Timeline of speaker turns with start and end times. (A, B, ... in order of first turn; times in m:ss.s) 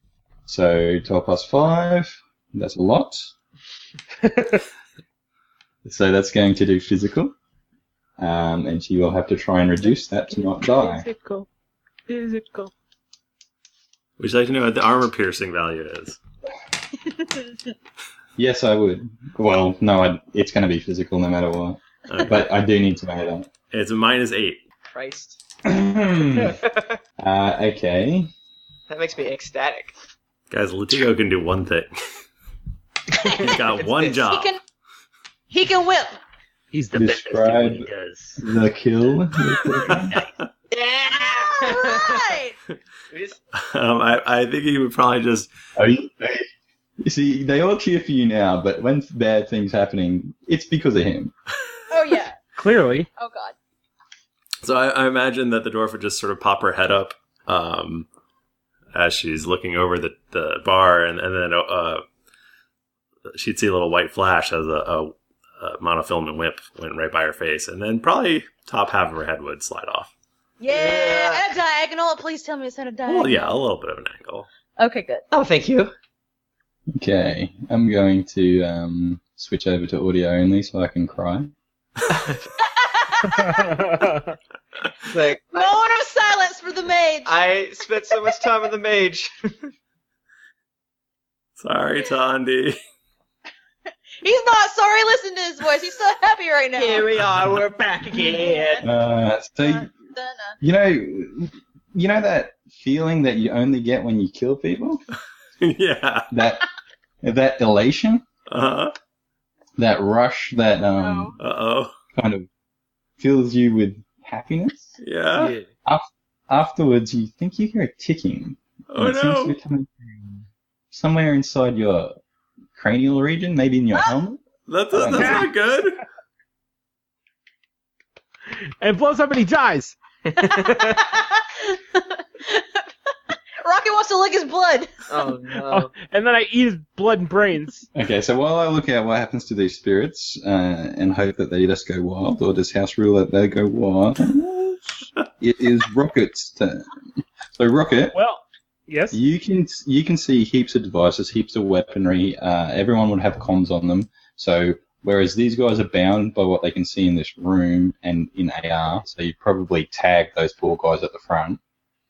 0:00.5-0:03.3 A
0:04.2-0:04.6 B
0:05.8-0:07.3 A
0:08.2-0:11.1 A
0:10.3-0:11.5 B
0:12.1-0:12.7 B
0:14.2-0:16.2 C
0:18.4-0:23.5 A
0:22.1-0:22.5 C
0:23.7-0:24.6 C
0:24.9-0:25.4 D
0:25.6-0:26.6 A
0:26.4-0:27.0 D
0:27.2-0:28.3 A
0:28.9-0:29.9 D
0:30.5-0:32.1 C
0:33.1-0:34.2 D
0:33.2-0:34.6 C
0:34.2-0:34.6 E
0:35.5-0:36.2 E
0:36.7-0:37.9 B
0:36.9-0:40.2 A
0:37.0-0:38.3 C
0:39.7-0:40.0 B
0:40.7-0:42.3 D
0:41.1-0:42.6 E
0:43.1-0:43.4 D
0:43.5-0:45.5 C
0:45.8-0:46.5 A
0:47.0-0:51.3 A
0:51.9-0:52.4 E
0:52.6-0:53.1 B
0:53.2-0:53.6 E
0:54.6-0:58.1 C
0:58.9-1:02.0 C
1:03.3-1:10.1 C
1:10.6-1:13.5 E
1:10.7-1:11.4 D
1:13.1-1:14.5 C
1:14.8-1:15.2 E
1:15.3-1:15.9 D
1:16.9-1:21.5 A
1:22.5-1:23.9 E
1:23.3-1:24.4 B
1:25.0-1:25.7 D
1:25.5-1:27.3 E
1:27.2-1:29.7 D
1:31.6-1:32.8 C
1:34.2-1:37.1 E
1:36.8-1:38.9 D
1:38.1-1:38.9 E
1:38.8-1:39.9 A
1:39.6-1:40.6 E
1:40.6-1:45.0 A
1:45.6-1:46.3 C
1:46.3-1:46.6 A
1:47.2-1:48.3 A
1:48.5-1:49.0 C
1:49.8-1:51.4 A
1:50.8-1:51.4 E
1:51.4-1:51.9 C
1:52.2-1:52.5 A
1:53.2-1:55.0 A
1:55.0-1:55.6 C
1:55.4-1:55.7 B
1:55.8-2:02.2 A
1:58.9-1:59.6 C
2:02.8-2:05.5 A
2:04.7-2:06.0 C
2:05.2-2:05.5 B
2:08.8-2:10.0 B
2:10.3-2:11.0 D
2:10.7-2:12.8 E
2:13.6-2:15.0 E
2:15.1-2:15.9 D
2:15.7-2:17.9 B
2:17.9-2:24.8 A
2:25.4-2:26.9 A
2:27.5-2:28.2 A
2:28.1-2:29.2 B
2:29.1-2:41.6 A